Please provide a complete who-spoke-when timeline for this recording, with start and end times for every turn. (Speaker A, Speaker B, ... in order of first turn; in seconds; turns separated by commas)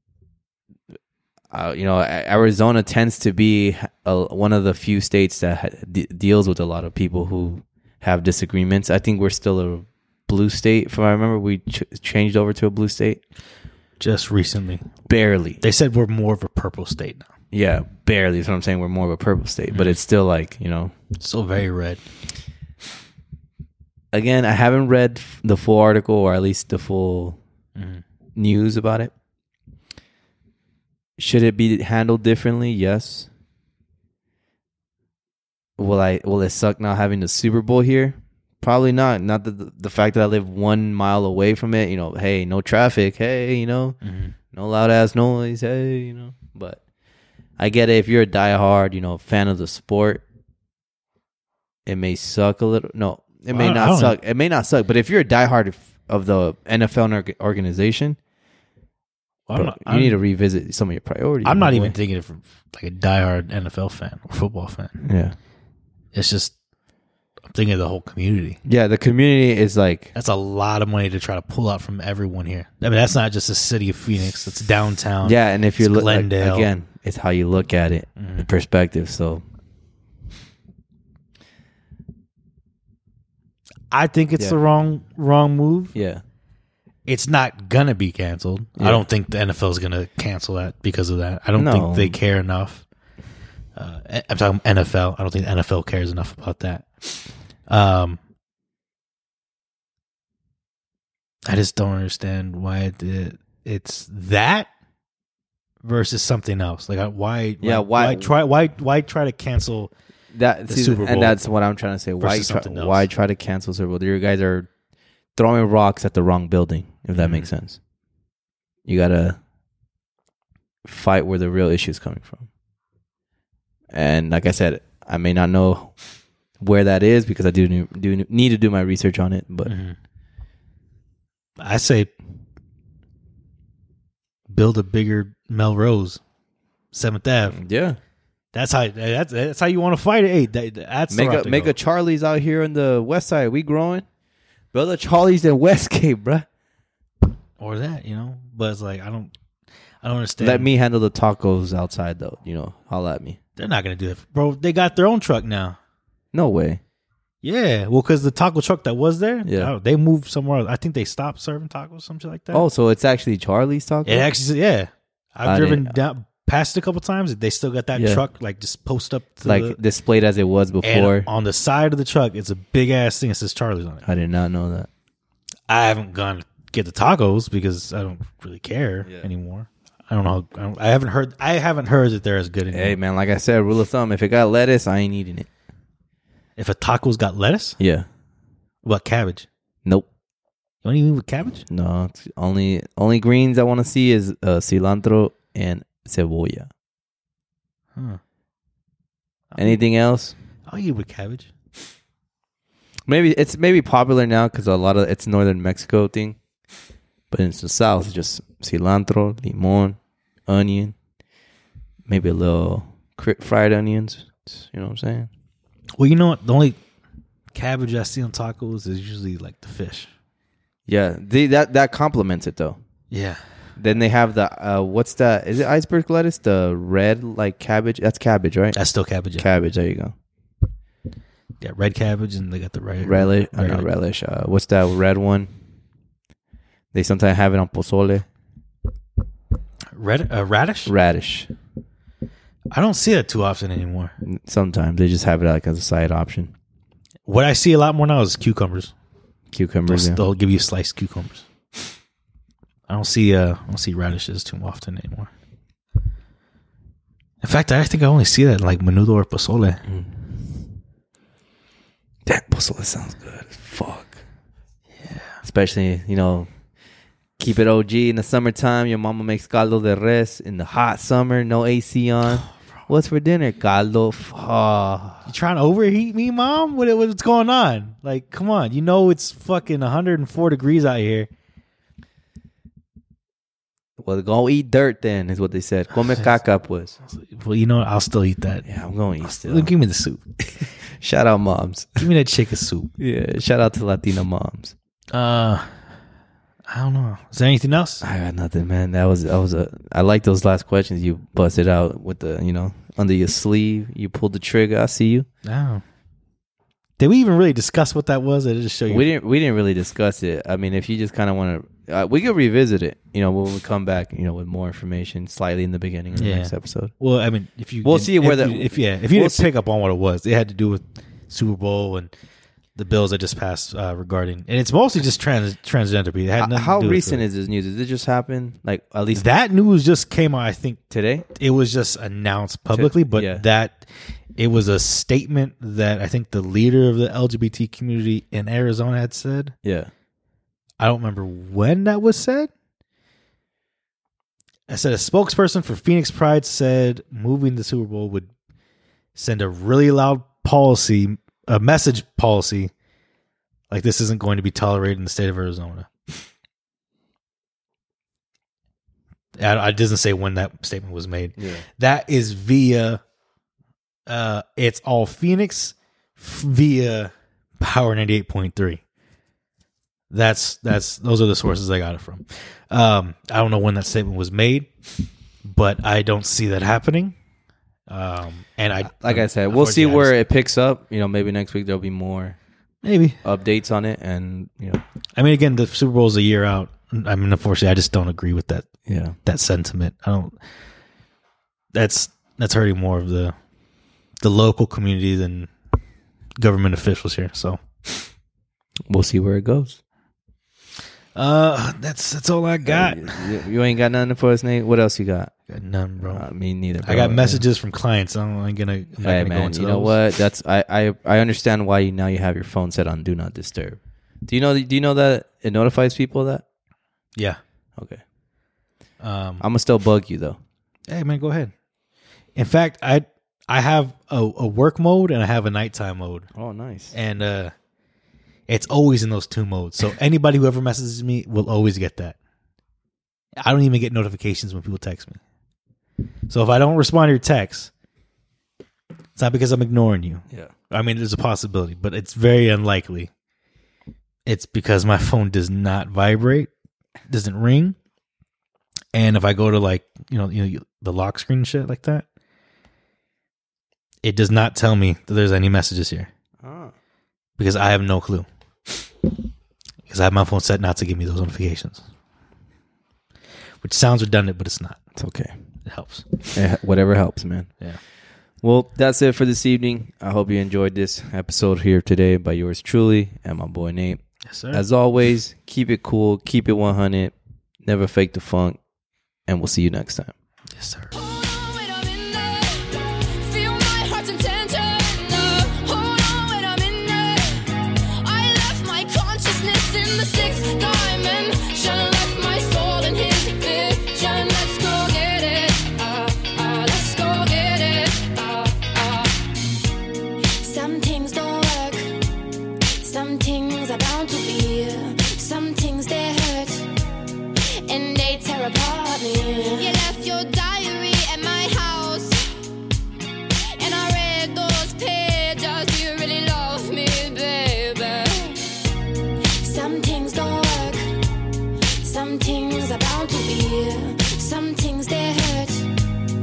Speaker A: 1.5-13.2, Speaker B: 14.0-14.9, Speaker A: 15.1-15.6, Speaker B: 15.6-17.3, Speaker A: 17.5-20.9, Speaker B: 19.7-20.0, Speaker B: 21.2-22.0, Speaker A: 24.1-27.4, Speaker B: 27.8-28.0, Speaker A: 28.4-29.1, Speaker A: 31.2-33.3, Speaker A: 35.8-44.0, Speaker B: 44.0-44.3, Speaker A: 44.5-46.8, Speaker A: 47.6-50.2, Speaker A: 51.9-58.2, Speaker B: 53.5-54.2, Speaker B: 59.5-60.1, Speaker A: 59.5-62.0, Speaker B: 61.4-65.0, Speaker A: 65.0-65.3, Speaker B: 66.1-66.5, Speaker B: 67.5-68.6, Speaker A: 68.6-70.1, Speaker B: 70.1-76.7, Speaker A: 75.2-79.4, Speaker B: 78.2-78.5, Speaker B: 83.9-86.0, Speaker A: 85.9-86.2, Speaker B: 87.1-92.8, Speaker A: 88.8-89.0, Speaker A: 91.5-92.2, Speaker B: 93.8-98.2, Speaker B: 101.5-104.7, Speaker B: 105.8-109.9, Speaker A: 107.6-108.3, Speaker A: 110.3-114.7, Speaker B: 110.7-111.4, Speaker B: 112.2-113.1, Speaker A: 115.3-117.8, Speaker B: 117.1-117.5, Speaker A: 118.8-119.4, Speaker A: 120.8-122.5, Speaker A: 123.9-125.9, Speaker A: 126.6-129.7, Speaker B: 129.7-129.9, Speaker B: 131.6-132.1, Speaker B: 134.5-136.2, Speaker B: 136.9-137.6, Speaker A: 137.5-138.0, Speaker B: 138.5-141.7, Speaker A: 141.1-144.1, Speaker A: 144.7-146.4, Speaker B: 147.6-149.3, Speaker B: 150.0-150.7, Speaker A: 150.4-153.4, Speaker B: 153.6-155.8, Speaker A: 156.3-156.8, Speaker B: 157.4-162.6, Speaker A: 159.4-159.7, Speaker A: 162.5-164.3, Speaker B: 164.1-169.8, Speaker A: 165.4-165.9, Speaker A: 167.9-168.2, Speaker A: 169.4-171.3, Speaker B: 170.8-174.0, Speaker A: 174.0-174.9, Speaker B: 175.7-183.0, Speaker A: 182.7-185.5, Speaker B: 186.6-187.8, Speaker A: 187.8-188.1, Speaker B: 188.8-189.5, Speaker B: 190.8-191.6, Speaker A: 191.7-196.7, Speaker B: 199.5-199.8, Speaker A: 199.6-200.3, Speaker B: 200.7-201.5, Speaker A: 203.1-206.4, Speaker A: 207.3-210.9, Speaker A: 212.1-215.3, Speaker B: 216.0-216.8, Speaker B: 217.5-220.1, Speaker A: 220.9-222.8, Speaker B: 223.1-223.4, Speaker A: 223.8-228.8, Speaker B: 228.8-229.5, Speaker A: 229.4-230.1, Speaker B: 231.6-233.9, Speaker A: 233.0-235.5, Speaker A: 236.9-238.2, Speaker B: 239.9-240.9, Speaker A: 240.8-241.5, Speaker B: 242.7-244.1, Speaker A: 244.2-246.5, Speaker B: 247.2-248.9, Speaker A: 249.5-250.2, Speaker B: 249.9-251.4, Speaker B: 252.9-255.3, Speaker B: 257.4-259.8, Speaker A: 259.9-260.3, Speaker A: 262.2-264.2, Speaker B: 265.0-265.4, Speaker A: 265.4-266.5, Speaker A: 267.4-275.3, Speaker B: 275.2-281.3, Speaker A: 284.0-287.0, Speaker B: 287.1-288.6, Speaker A: 288.6-289.7, Speaker B: 289.2-290.2, Speaker A: 290.6-292.1, Speaker B: 292.0-292.9, Speaker A: 293.0-294.7, Speaker B: 295.1-295.9, Speaker B: 296.7-298.0, Speaker A: 298.0-305.3, Speaker B: 305.4-305.8, Speaker B: 307.0-309.1, Speaker A: 308.9-316.9, Speaker B: 316.1-322.1, Speaker A: 317.8-319.5, Speaker B: 322.8-327.2, Speaker A: 326.4-329.3, Speaker B: 329.1-330.8, Speaker A: 330.9-331.2, Speaker B: 331.3-339.5, Speaker A: 332.7-333.4, Speaker A: 339.6-339.9, Speaker B: 340.8-342.5, Speaker B: 344.7-348.3, Speaker B: 349.1-352.7, Speaker B: 353.7-356.2, Speaker B: 359.4-363.0, Speaker A: 361.4-361.6, Speaker B: 364.1-368.8, Speaker B: 370.1-374.7, Speaker B: 375.4-377.1, Speaker B: 377.9-380.1, Speaker A: 378.8-382.4, Speaker B: 382.8-383.2, Speaker A: 383.2-384.8, Speaker B: 385.1-388.7, Speaker A: 388.9-389.2, Speaker B: 389.2-390.4, Speaker B: 391.7-393.3, Speaker B: 394.2-395.5, Speaker B: 396.4-398.1, Speaker A: 398.9-399.8, Speaker B: 401.1-403.3, Speaker A: 402.6-405.3, Speaker B: 405.5-406.2, Speaker A: 406.0-407.4, Speaker B: 406.8-410.0, Speaker A: 409.0-416.4, Speaker A: 417.8-418.0, Speaker B: 419.0-419.4, Speaker A: 419.4-420.4, Speaker B: 420.9-421.5, Speaker B: 422.4-426.3, Speaker A: 426.3-426.9, Speaker B: 426.9-427.5, Speaker B: 428.5-432.2, Speaker B: 433.4-435.2, Speaker B: 436.3-437.7, Speaker B: 439.1-443.1, Speaker B: 444.2-446.5, Speaker B: 447.1-447.8, Speaker B: 448.9-452.1, Speaker B: 454.0-456.1, Speaker A: 456.4-456.7, Speaker B: 457.4-458.3, Speaker B: 459.9-461.8, Speaker B: 463.6-464.8, Speaker A: 465.0-465.3, Speaker B: 465.6-466.1, Speaker A: 466.3-467.5, Speaker A: 468.4-477.1, Speaker B: 474.3-474.6, Speaker A: 477.6-478.6, Speaker A: 479.3-480.1, Speaker B: 480.5-480.9, Speaker C: 480.9-499.3, Speaker C: 500.4-501.9, Speaker C: 502.8-506.7, Speaker C: 507.6-512.3, Speaker C: 513.5-518.6, Speaker C: 519.4-520.8, Speaker C: 521.8-525.7